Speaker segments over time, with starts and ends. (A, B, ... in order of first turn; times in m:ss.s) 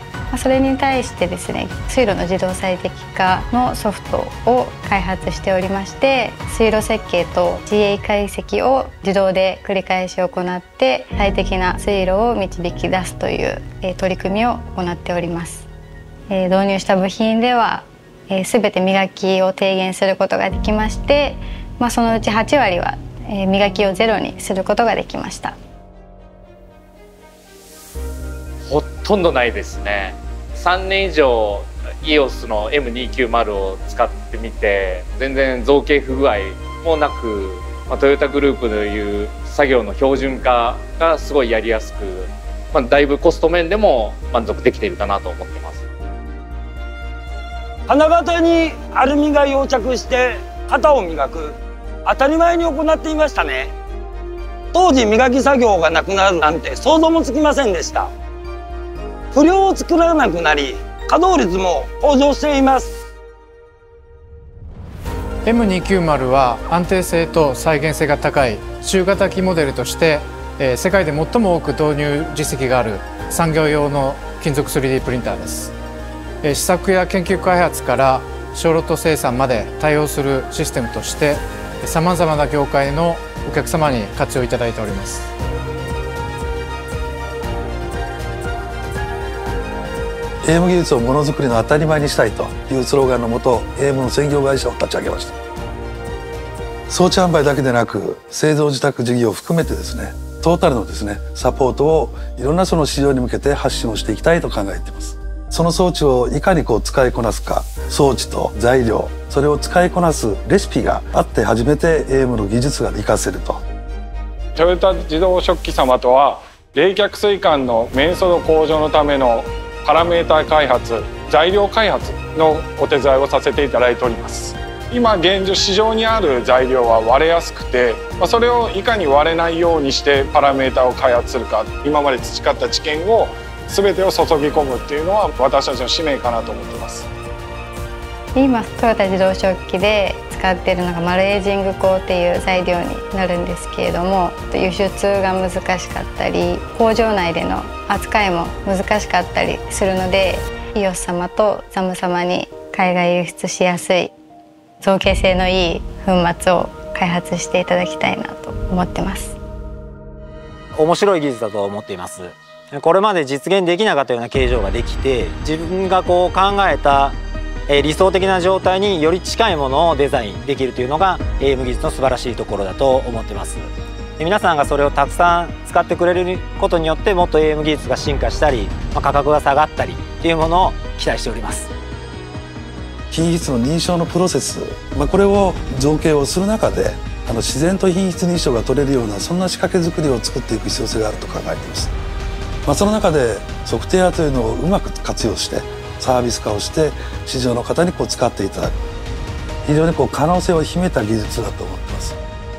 0:00.3-0:15.7 A
0:16.3-0:25.6 A
0:28.7-0:45.8 B
0:47.9-0:53.7 C
0:54.7-0:58.1 C
0:59.3-1:03.1 C
1:05.5-1:15.7 D
1:16.4-1:25.3 D
1:30.4-1:35.4 E
1:36.9-1:53.6 E
1:54.6-2:17.1 F
2:18.4-2:34.1 A
2:34.8-2:39.4 A
2:40.8-2:47.2 G
2:47.7-3:01.7 G
3:03.1-3:11.9 E
3:12.7-3:18.8 E
3:19.7-3:22.2 E